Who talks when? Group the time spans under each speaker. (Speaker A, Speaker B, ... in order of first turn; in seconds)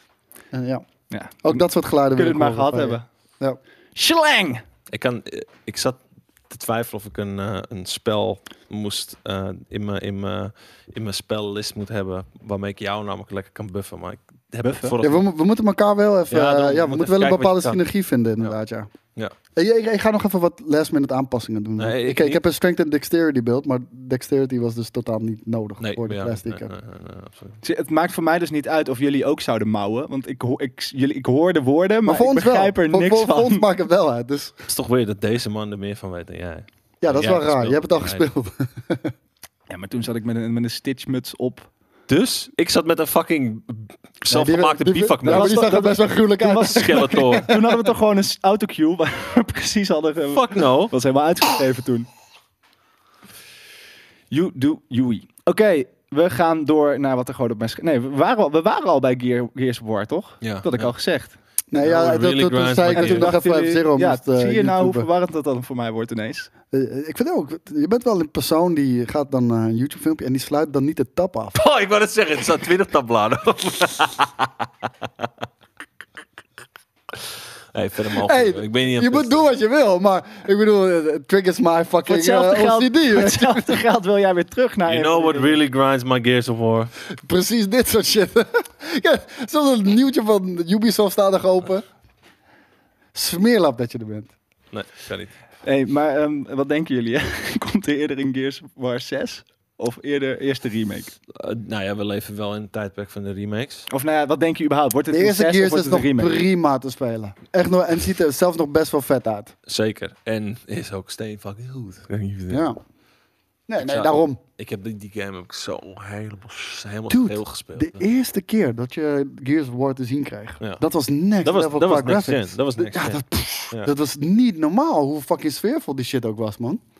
Speaker A: 0.5-0.8, 1.4-3.6, 15.0-18.9, 19.6-26.7, 32.0-34.5, 37.0-39.1, 44.3-47.6, 61.7-65.1, 66.7-71.6, 78.2-83.8, 87.2-91.8, 93.1-94.3, 105.1-109.5, 112.5-112.8, 113.7-114.4, 117.1-126.8
Speaker B: 1.1-3.1, 3.9-4.6, 14.6-14.9, 27.6-33.6, 39.7-41.7, 45.2-52.1, 54.3-61.4, 62.9-66.5, 82.0-85.6, 95.6-101.1, 103.9-106.5
Speaker C: 4.9-15.2, 16.3-17.8, 21.8-22.4, 25.8-27.6, 34.7-38.2, 42.1-45.7, 46.7-47.5, 50.3-50.9, 60.4-60.9, 61.7-63.4, 71.5-74.6, 77.7-79.4, 84.9-86.9, 94.7-95.3, 101.3-103.9, 109.7-112.6, 113.8-118.0, 121.4-123.9